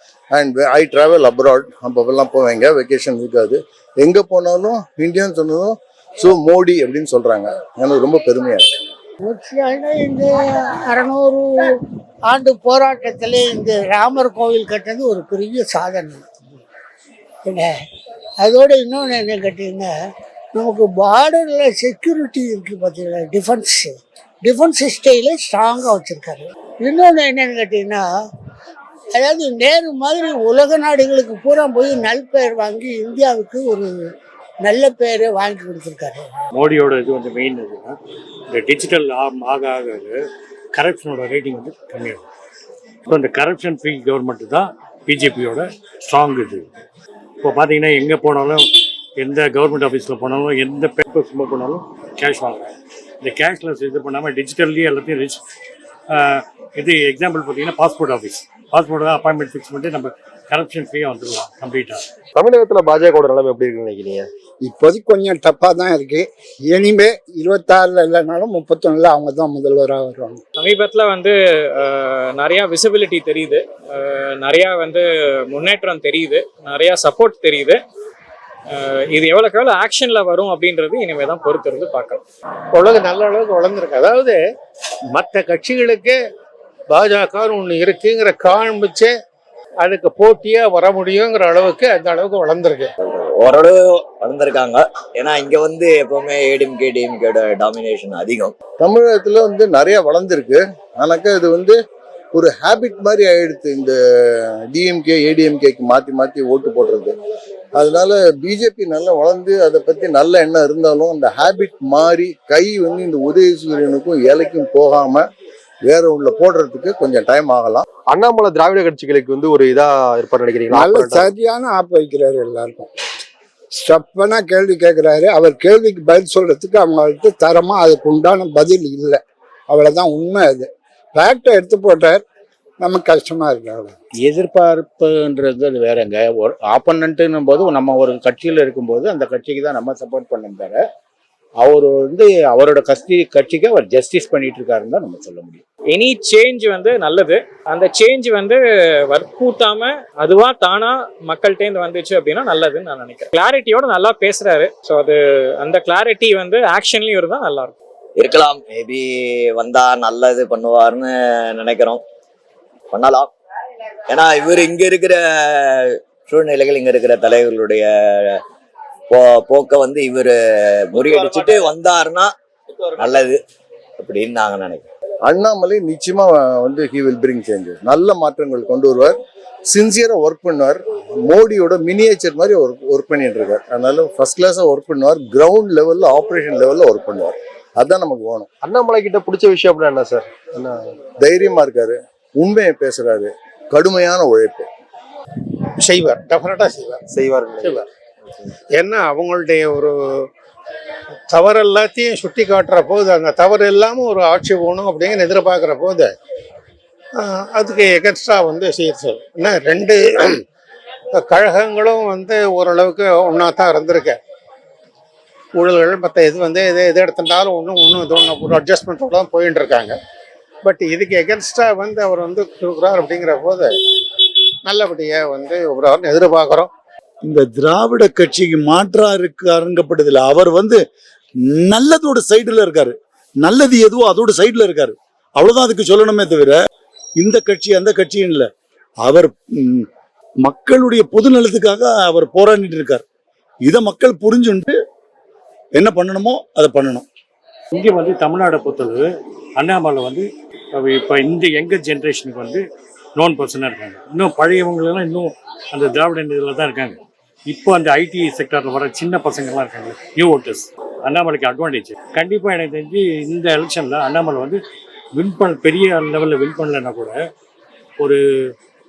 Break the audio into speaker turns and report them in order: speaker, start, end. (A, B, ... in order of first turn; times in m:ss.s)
0:00.3-0:08.6 A
0:09.2-0:10.3 B
0:10.9-0:11.5 B
0:12.3-0:16.2 B
0:18.4-0:19.9 B
0:20.5-0:28.0 B
0:29.1-0:33.9 B
0:34.6-0:36.3 B
0:36.6-0:38.0 C
0:38.5-0:40.2 C
0:40.7-0:42.2 C
0:43.1-0:46.6 C
0:47.4-0:55.4 C
0:56.1-1:02.0 C
1:02.3-1:04.3 D
1:04.6-1:10.4 E
1:10.6-1:17.8 F
1:18.7-1:22.2 F
1:22.8-1:24.4 G
1:25.1-1:26.2 G
1:26.9-1:29.1 G
1:29.8-1:32.9 G
1:33.0-1:38.5 H
1:38.8-1:41.8 A
1:42.3-1:43.9 A
1:44.7-1:47.1 A
1:47.8-1:55.2 A
1:55.8-1:57.8 A
1:58.1-2:01.3 D
2:00.7-2:02.9 E
2:03.8-2:12.2 E
2:12.8-2:13.9 E
2:14.1-2:20.9 I
2:21.6-2:25.6 I
2:25.9-2:37.7 F
2:38.2-2:42.0 H
2:42.9-2:43.3 H
2:44.1-2:48.4 H
2:49.1-2:52.3 H
2:53.0-2:53.4 H
2:54.0-2:54.8 H
2:55.3-2:59.2 A
2:59.7-3:08.5 A
3:08.6-3:10.8 D
3:11.2-3:14.7 A
3:15.8-3:17.0 G
3:17.1-3:17.8 D
3:18.8-3:19.9 G
3:21.3-3:26.1 G
3:27.2-3:30.4 G
3:31.2-3:34.2 G
3:35.6-3:40.0 G
3:40.6-3:43.7 G
3:44.6-3:46.7 G
3:47.2-3:50.8 J
3:51.7-3:56.5 J
3:57.2-3:58.5 J
3:59.0-3:59.9 J
4:00.4-4:03.0 J
4:03.7-4:04.7 J
4:05.8-4:07.0 J
4:07.7-4:12.6 C
4:13.2-4:24.6 C
4:25.1-4:27.1 C
4:28.0-4:28.5 C